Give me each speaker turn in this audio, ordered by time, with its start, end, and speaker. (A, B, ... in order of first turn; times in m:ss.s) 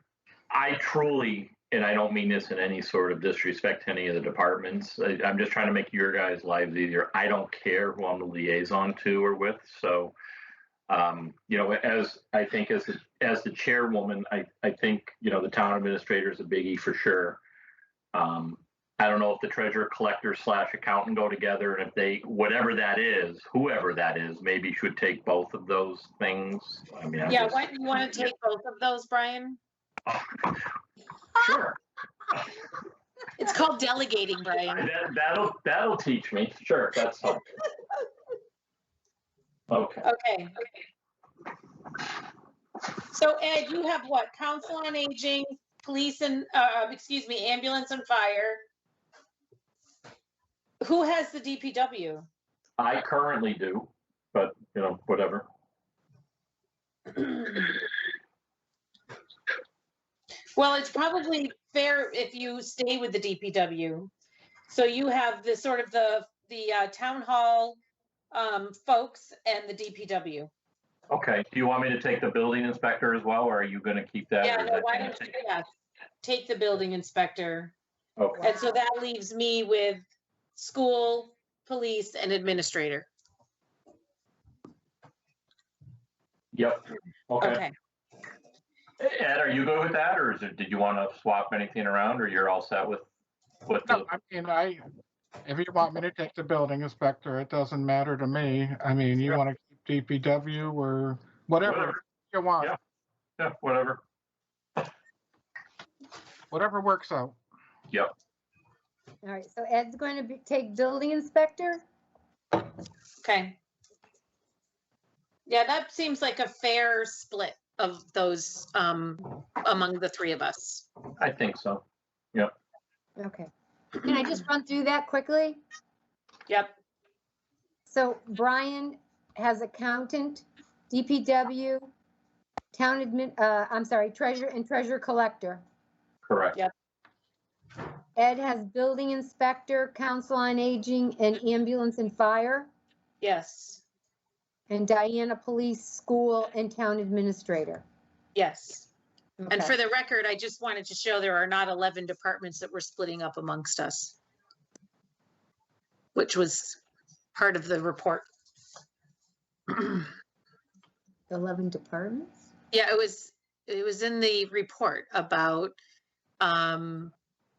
0:00.5-0:10.1 A
0:10.9-0:17.4 A
0:18.1-0:28.3 A
0:27.2-0:29.6 B
0:30.1-0:30.6 A
0:31.4-0:31.8 A
0:33.4-0:34.9 B
0:34.7-0:37.4 A
0:39.7-0:40.0 A
0:40.0-0:40.7 B
0:43.1-0:48.6 B
0:50.8-0:52.3 B
0:52.8-0:55.5 A
0:57.2-0:57.7 B
1:00.6-1:04.1 B
1:04.7-1:07.8 B
1:08.3-1:10.5 B
1:11.1-1:15.3 A
1:14.4-1:15.7 B
1:16.2-1:17.7 B
1:18.2-1:18.5 A
1:18.4-1:20.0 B
1:20.5-1:23.1 B
1:26.5-1:27.6 A
1:27.4-1:27.7 B
1:29.0-1:33.0 A
1:33.6-1:34.0 A
1:33.9-1:34.8 C
1:35.4-1:42.7 C
1:41.6-1:42.0 A
1:43.4-1:44.0 A
1:46.5-1:47.4 C
1:49.2-1:51.8 D
1:53.2-1:53.6 B
1:55.5-2:00.9 B
2:01.2-2:01.8 A
2:03.2-2:05.6 D
2:06.5-2:06.7 B
2:07.9-2:11.9 D
2:12.7-2:15.6 D
2:16.2-2:16.6 A
2:18.2-2:22.7 D
2:23.2-2:23.8 B
2:24.7-2:27.8 D
2:28.3-2:28.9 B
2:29.4-2:29.7 D
2:29.5-2:34.2 B
2:36.1-2:36.8 B
2:37.3-2:38.3 B
2:39.7-2:40.1 B
2:41.3-2:42.5 D
2:42.7-2:45.8 B
2:46.4-2:47.1 B